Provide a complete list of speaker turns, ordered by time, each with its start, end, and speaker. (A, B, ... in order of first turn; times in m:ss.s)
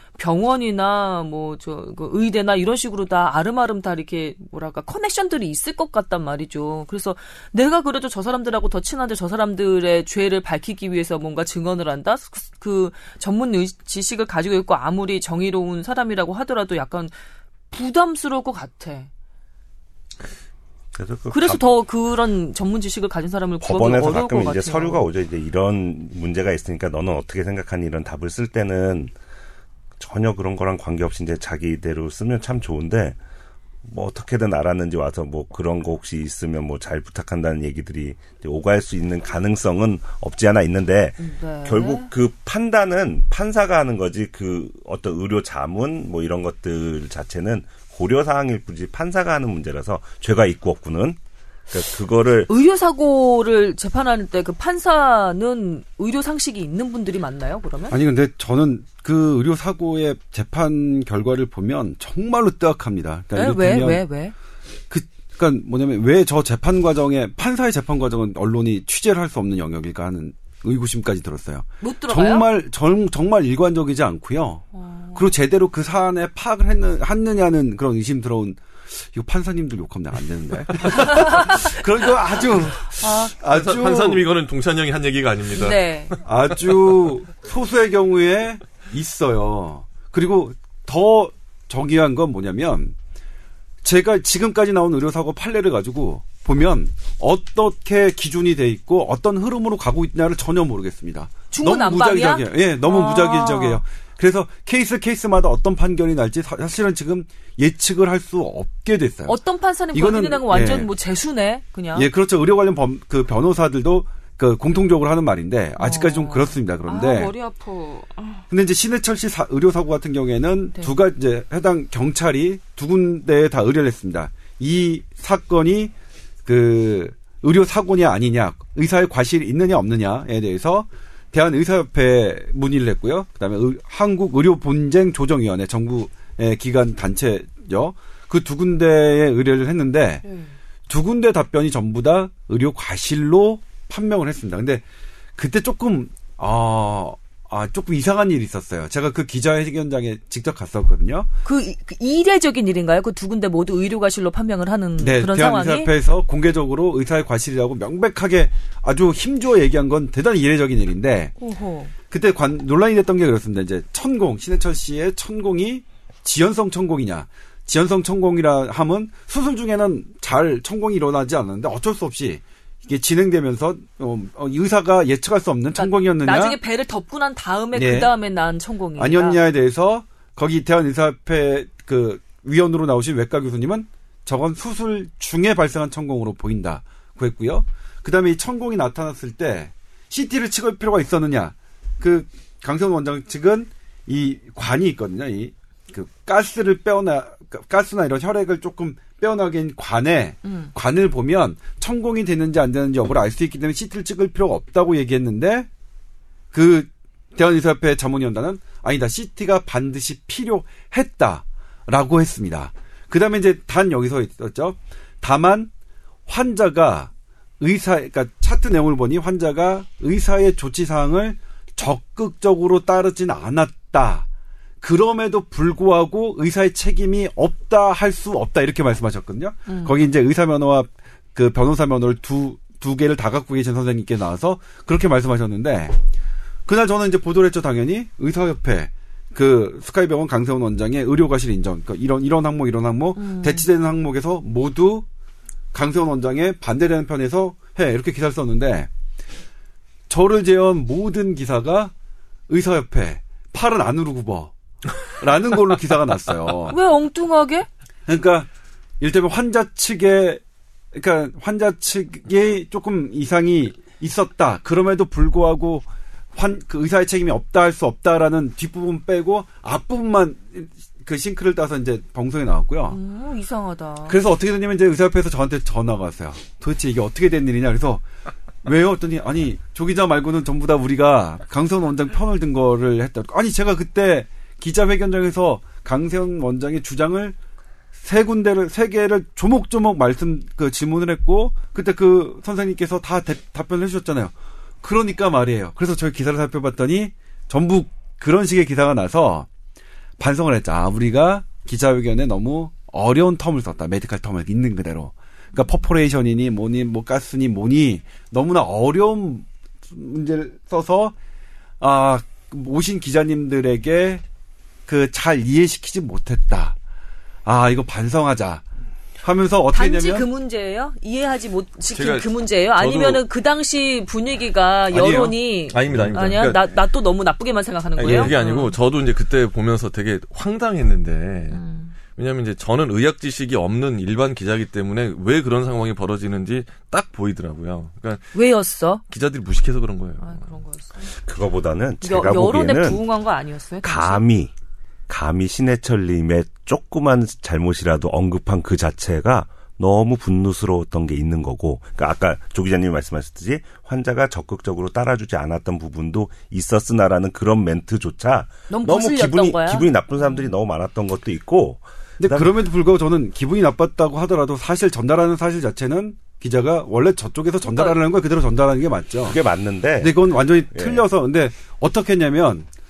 0:00.2-0:17.1 A
0:17.7-0:19.1 A
0:20.9-0:21.7 B
0:21.3-0:25.0 A
0:23.6-0:29.1 B
0:30.0-0:33.2 B
0:33.8-0:51.2 B
0:41.2-0:42.1 A
0:51.7-0:52.5 B
0:52.5-0:58.0 A
0:57.9-1:04.0 C
1:03.3-1:04.3 A
1:04.9-1:24.3 C
1:11.8-1:12.4 A
1:14.7-1:15.4 A
1:21.0-1:21.6 A
1:22.9-1:27.0 D
1:25.5-1:26.2 A
1:26.2-1:33.0 C
1:33.8-1:49.4 C
1:41.5-1:43.8 A
1:49.3-1:52.1 A
1:49.9-1:50.9 C
1:51.9-1:57.3 C
1:55.8-1:58.4 A
1:58.5-2:05.9 C
2:06.4-2:20.2 C
2:20.2-2:20.5 A
2:20.9-2:24.8 C
2:25.4-2:31.3 C
2:31.4-2:35.9 A
2:35.0-2:41.3 C
2:41.4-2:41.9 A
2:42.1-2:56.6 C
2:55.8-2:59.4 A
2:57.7-2:58.1 C
2:59.0-3:25.7 C
3:20.4-3:20.7 A
3:26.5-3:35.7 C
3:36.3-3:44.3 C
3:44.8-3:56.0 C
3:49.7-3:50.0 A
3:56.6-4:05.0 C
4:03.2-4:03.6 A
4:05.7-4:08.9 C
4:10.1-4:11.9 C
4:12.5-4:16.8 C
4:16.7-4:17.7 A
4:18.1-4:18.5 C
4:19.0-4:20.4 C
4:20.9-4:33.0 C
4:32.9-4:34.2 A
4:34.1-4:38.0 C
4:38.6-4:47.4 C
4:48.0-4:59.5 C
5:00.2-5:11.1 C
5:11.8-5:14.2 C
5:14.9-5:16.8 C
5:17.4-5:18.6 C
5:19.2-5:20.3 C
5:19.7-5:28.7 A
5:21.9-5:23.2 D
5:24.9-5:25.3 C
5:25.0-5:26.7 D
5:28.0-5:31.6 D
5:28.0-5:28.3 C
5:31.5-5:31.9 A
5:32.1-5:38.3 D
5:38.3-5:39.0 A
5:39.1-5:40.5 D
5:40.2-5:41.1 A
5:41.1-5:43.0 B
5:42.0-5:44.2 A
5:43.8-5:44.5 B
5:45.1-6:02.6 B
5:58.7-6:00.4 A
6:02.2-6:09.4 C
6:07.6-6:08.0 A
6:09.2-6:10.2 B
6:10.0-6:12.7 C
6:10.7-6:11.0 B